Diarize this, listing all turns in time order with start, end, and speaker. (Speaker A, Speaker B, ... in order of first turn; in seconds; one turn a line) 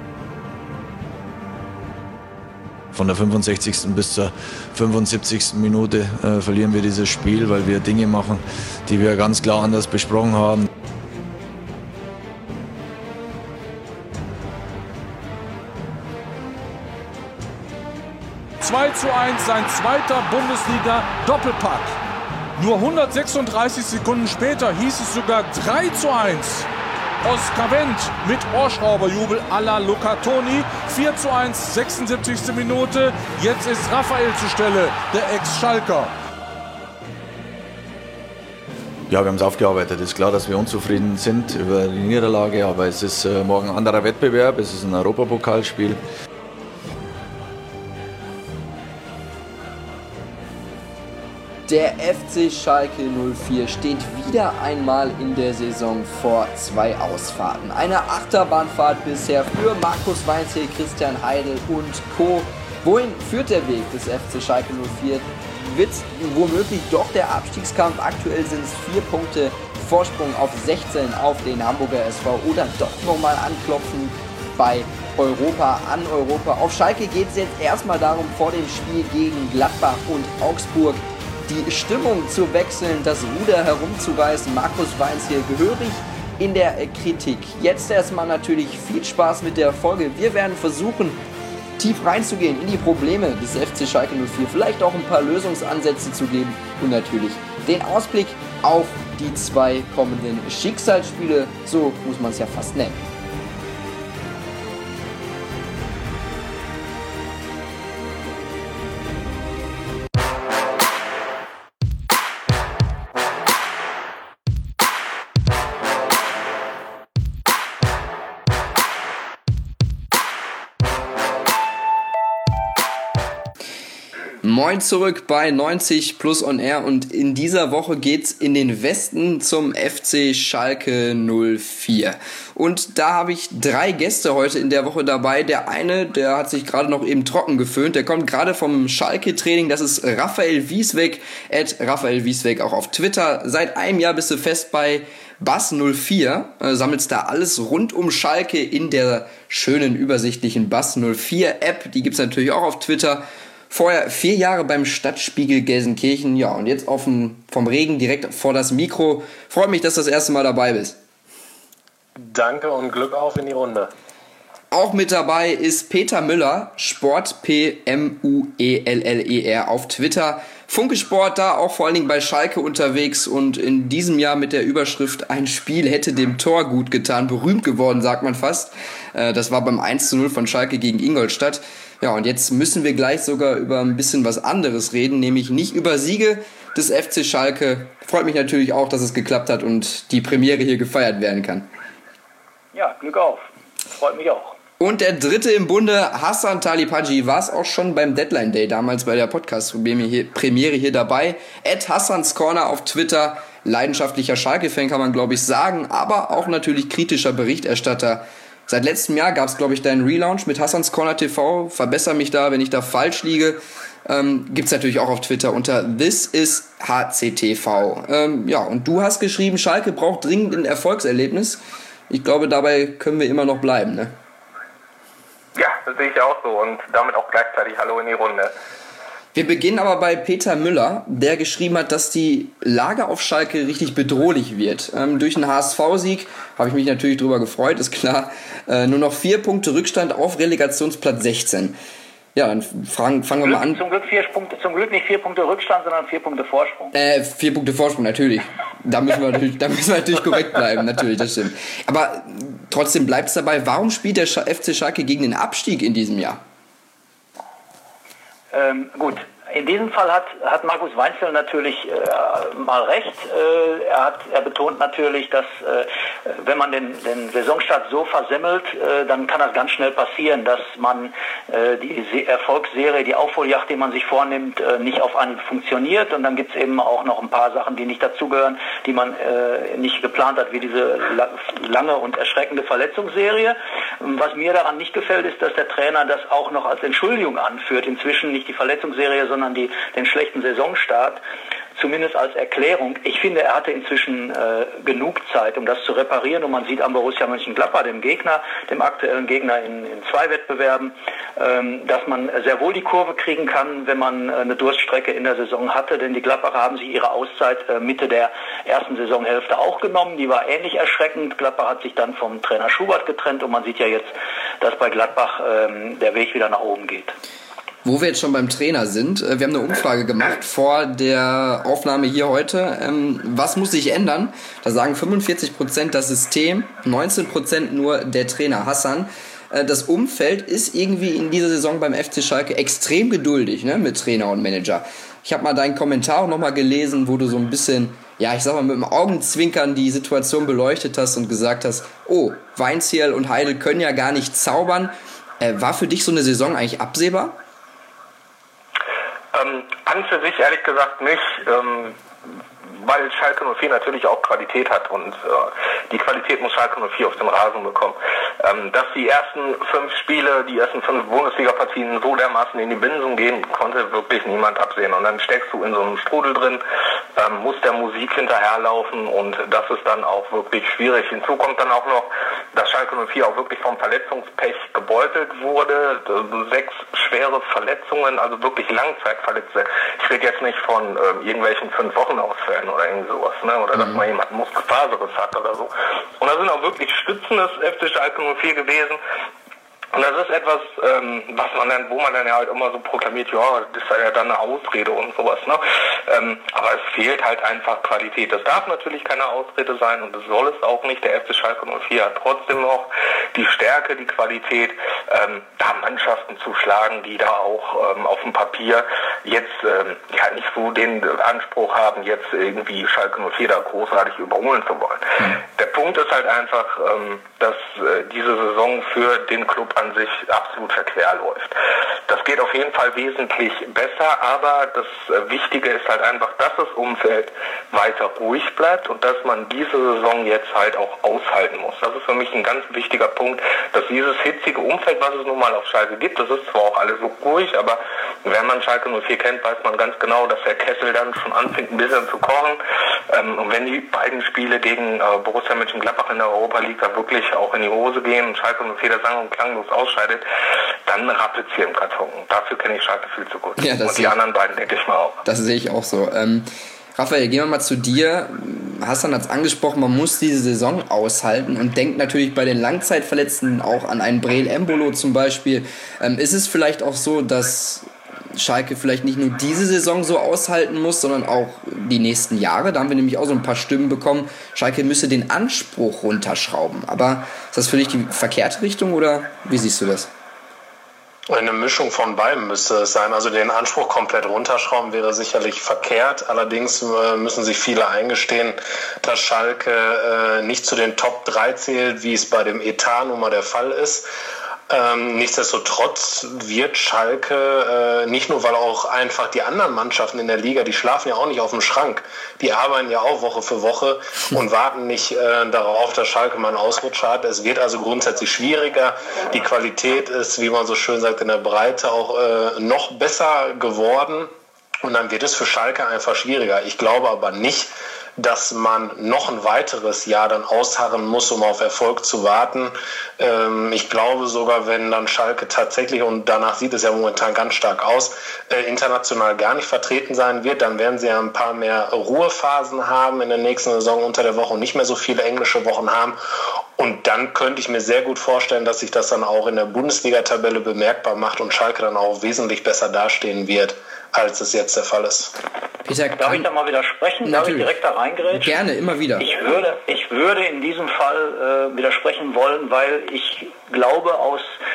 Speaker A: 2.9-10.7
Speaker B: 18.6-21.9
Speaker B: 22.6-26.7
Speaker B: 27.2-36.1
Speaker A: 39.1-46.0
Speaker C: 51.7-91.2
Speaker C: 91.8-103.0
Speaker C: 124.4-161.0
Speaker D: 162.2-163.9
Speaker C: 164.7-191.7
Speaker E: 192.7-194.6
Speaker C: 194.8-224.1
Speaker F: 225.6-228.5
Speaker C: 229.3-241.8
Speaker C: 242.3-243.8
Speaker E: 243.4-246.9
Speaker C: 246.9-256.4
Speaker E: 258.5-291.2
Speaker E: 291.8-317.1
Speaker C: 317.8-347.4
Speaker F: 349.3-352.0
Speaker F: 352.6-366.6
Speaker F: 367.1-389.0
Speaker F: 389.9-450.2
Speaker F: 450.9-455.2
Speaker C: 453.6-454.1
Speaker C: 455.2-480.1
Speaker D: 481.3-494.1
Speaker D: 494.7-514.3
Speaker D: 514.8-536.2
Speaker D: 536.8-545.3
Speaker C: 545.8-546.5
Speaker E: 546.2-548.6
Speaker C: 547.2-547.7
Speaker C: 548.3-549.3
Speaker E: 549.2-554.6